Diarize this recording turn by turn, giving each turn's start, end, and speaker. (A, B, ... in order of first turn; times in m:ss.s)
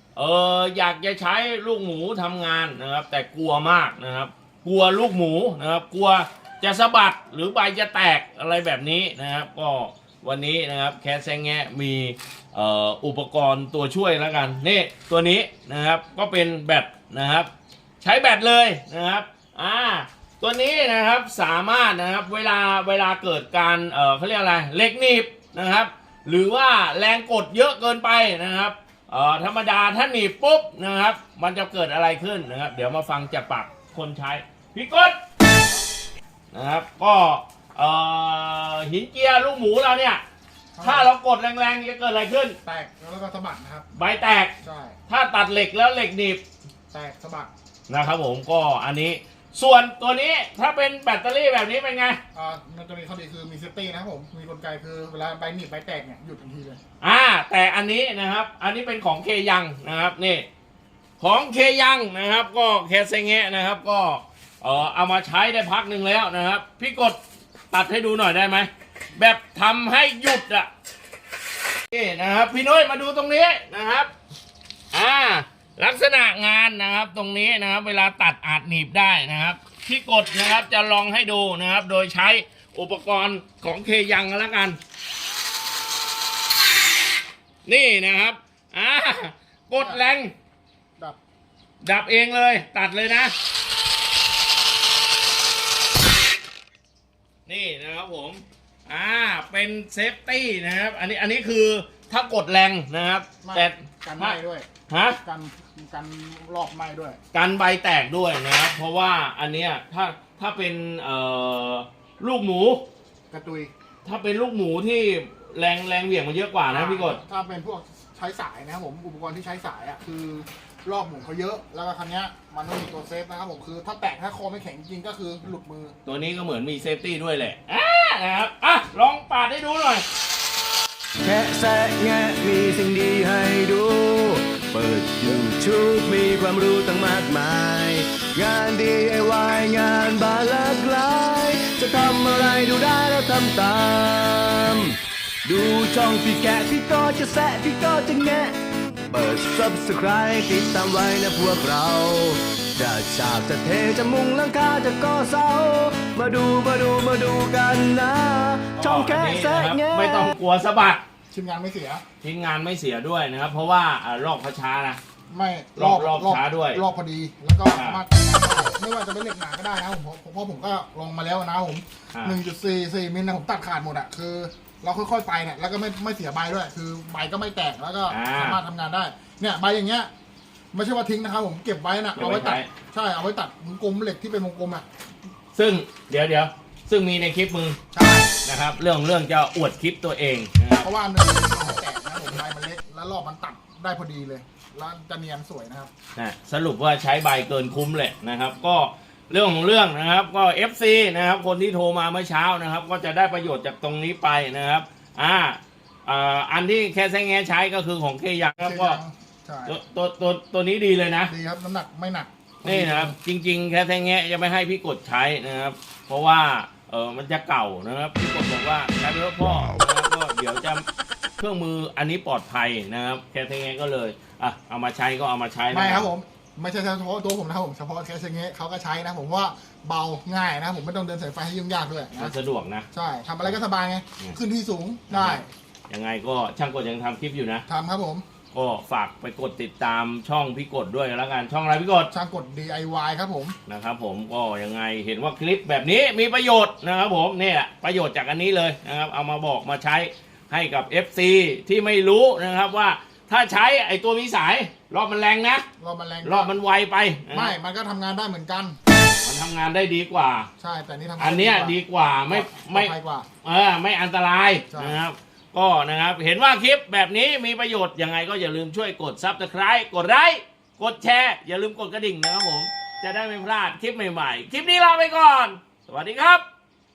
0:00.2-0:17.5 A
0:18.0-0:35.2 A
0:36.5-0:40.2 A
0:40.7-0:41.1 B
0:40.8-0:42.6 A
0:42.6-0:43.9 B
0:43.9-0:44.5 A
0:44.6-0:45.0 B
0:45.1-0:46.4 A
0:46.9-0:47.5 B
0:47.9-0:52.2 A
0:52.3-0:56.8 B
0:57.0-1:00.4 A
1:01.2-1:07.2 A
1:07.7-1:10.7 A
1:11.9-1:14.1 A
1:14.9-1:24.8 A
1:27.7-1:30.3 A
1:29.8-1:30.0 B
1:31.8-1:33.3 A
1:37.5-1:44.4 A
1:43.4-1:44.7 B
1:44.9-1:45.2 A
1:45.2-1:47.2 B
1:47.3-1:52.8 A
1:53.3-1:53.7 B
1:54.0-1:57.2 A
1:56.7-2:06.0 B
2:06.0-2:10.0 A
2:11.2-2:28.6 C
2:29.1-2:40.3 C
2:38.8-2:41.0 A
2:41.3-2:42.0 B
2:42.2-2:45.0 A
2:45.3-3:00.1 B
2:45.8-2:46.8 A
2:47.7-2:48.0 A
2:58.1-2:58.6 A
3:00.7-3:04.8 B
3:02.2-3:02.7 A
3:05.6-3:07.8 A
3:07.9-3:08.3 B
3:08.4-3:10.9 A
3:10.8-3:15.9 B
3:16.2-3:29.0 A
3:28.6-3:29.8 B
3:29.7-3:31.3 A
3:31.3-3:33.2 B
3:32.6-3:40.8 A
3:41.4-3:46.1 A
3:45.7-3:52.4 B
3:52.2-3:52.9 A
3:52.9-3:55.5 B
3:55.1-3:57.6 A
3:57.7-3:58.2 B
3:58.5-4:02.1 A
4:02.1-4:03.6 B
4:03.7-4:15.7 A
4:15.8-4:16.5 B
4:16.2-4:17.5 A
4:17.3-4:18.8 B
4:19.2-4:20.5 A
4:20.6-4:21.8 B
4:21.2-4:22.9 A
4:22.3-4:23.3 B
4:23.4-4:36.4 A
4:24.7-4:25.0 B